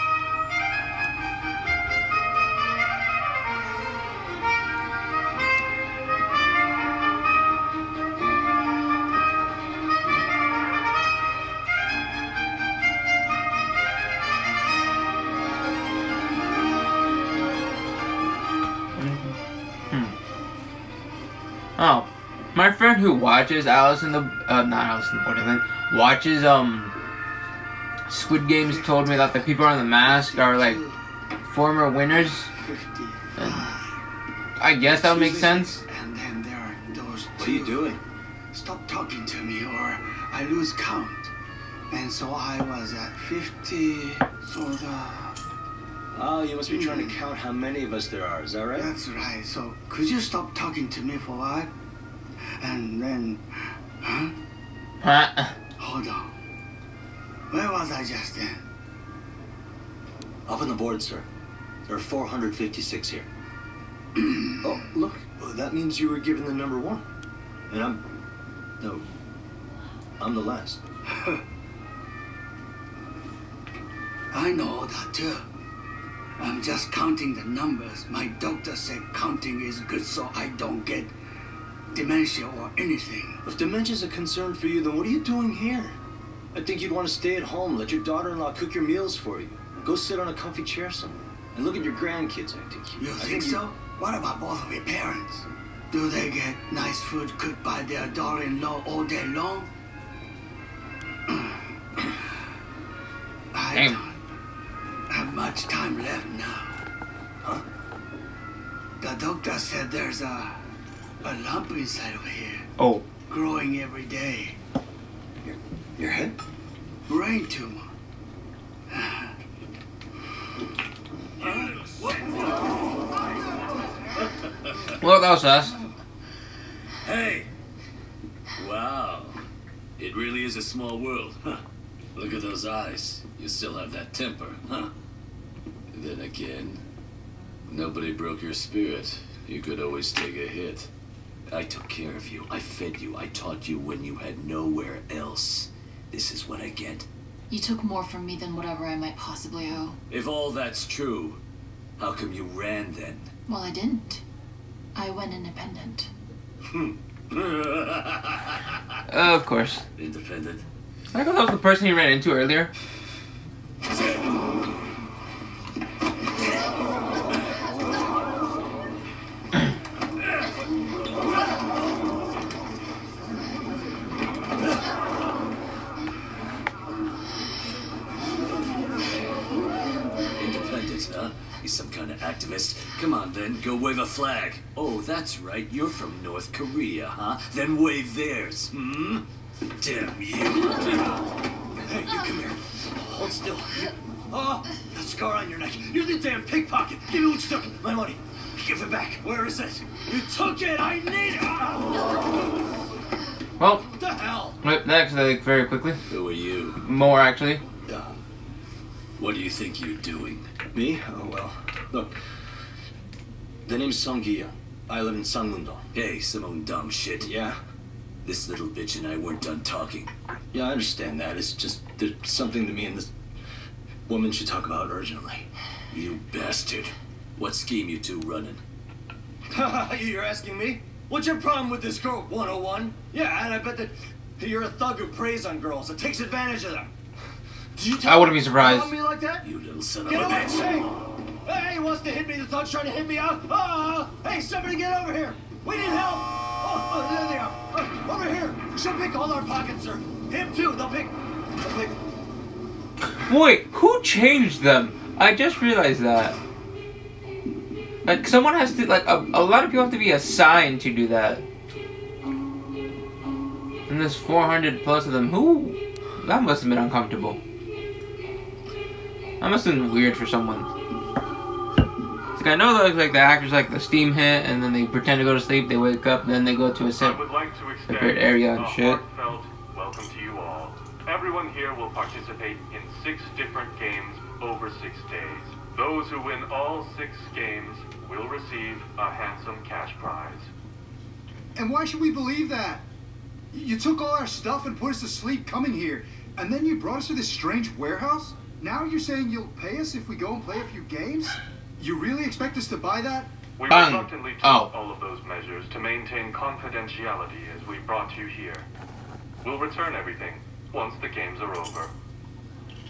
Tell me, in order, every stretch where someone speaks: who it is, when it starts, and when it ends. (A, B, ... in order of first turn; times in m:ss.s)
0:19.0-0:19.4 A
0:21.8-0:26.9 A
0:28.1-0:30.8 A
0:28.6-0:31.0 B
0:31.4-0:32.5 A
0:32.6-0:33.9 B
0:34.6-0:35.8 A
0:34.9-0:37.9 B
0:37.4-0:38.0 C
0:38.5-0:41.3 B
0:41.9-0:45.4 B
0:46.1-0:48.9 C
0:46.7-0:47.2 B
0:48.8-0:51.7 B
0:52.6-0:54.3 B
0:55.0-0:55.6 A
0:55.8-0:56.3 B
0:57.5-0:58.6 B
1:00.4-1:01.3 C
1:01.9-1:03.3 C
1:04.2-1:04.5 B
1:04.6-1:07.0 C
1:07.7-1:08.0 C
1:08.8-1:09.1 C
1:10.2-1:10.8 C
1:14.3-1:15.5 B
1:16.4-1:21.1 B
1:21.9-1:23.4 B
1:23.4-1:26.0 C
1:26.5-1:33.6 C
1:33.0-1:39.7 B
1:41.3-1:42.2 B
1:43.5-1:44.2 B
1:43.7-1:44.0 A
1:45.1-1:46.8 B
1:49.0-1:50.6 B
1:51.2-1:52.7 B
1:52.8-1:53.0 A
1:53.3-1:54.6 B
1:55.4-1:56.4 C
1:57.1-1:57.8 B
1:58.9-1:59.3 B
2:01.4-2:02.6 D
2:05.0-2:05.8 A
2:07.0-2:07.5 D
2:08.6-2:09.4 D
2:10.0-2:11.6 D
2:12.1-2:14.9 D
2:15.9-2:16.8 D
2:17.7-2:20.9 D
2:21.5-2:27.1 D
2:27.5-2:30.0 E
2:30.1-2:31.4 D
2:32.0-2:33.3 D
2:33.5-2:34.2 E
2:34.9-2:36.1 E
2:36.7-2:38.3 D
2:39.1-2:39.8 A
2:40.0-2:40.6 D
2:41.1-2:42.7 A
3:00.4-3:09.2 D
3:09.8-3:11.1 D
3:11.8-3:22.4 C
3:23.6-3:23.8 A
3:23.9-3:24.6 C
3:24.6-3:26.0 A
3:26.1-3:26.8 D
3:26.8-3:27.6 A
3:29.2-3:30.5 D
3:30.7-3:32.2 C
3:33.6-3:35.9 C
3:35.9-3:37.3 D
3:37.2-3:37.6 C
3:38.2-3:40.1 D
3:40.5-3:43.1 C
3:44.1-3:45.5 C
3:45.9-3:48.6 D
3:49.5-3:56.9 C
3:57.8-3:59.5 C
3:58.0-3:58.9 A
3:59.4-4:00.7 D
4:00.1-4:00.9 C
4:01.4-4:12.0 C
4:13.2-4:16.4 A
4:18.0-4:21.4 A
4:23.9-4:27.4 A
4:29.4-4:30.7 A
4:32.4-4:37.2 A
4:37.0-4:50.5 F
4:37.9-4:39.0 A
4:51.6-4:52.9 G
4:53.5-5:03.3 G
5:03.6-5:08.7 F
5:03.7-5:04.7 A
5:09.4-5:11.9 F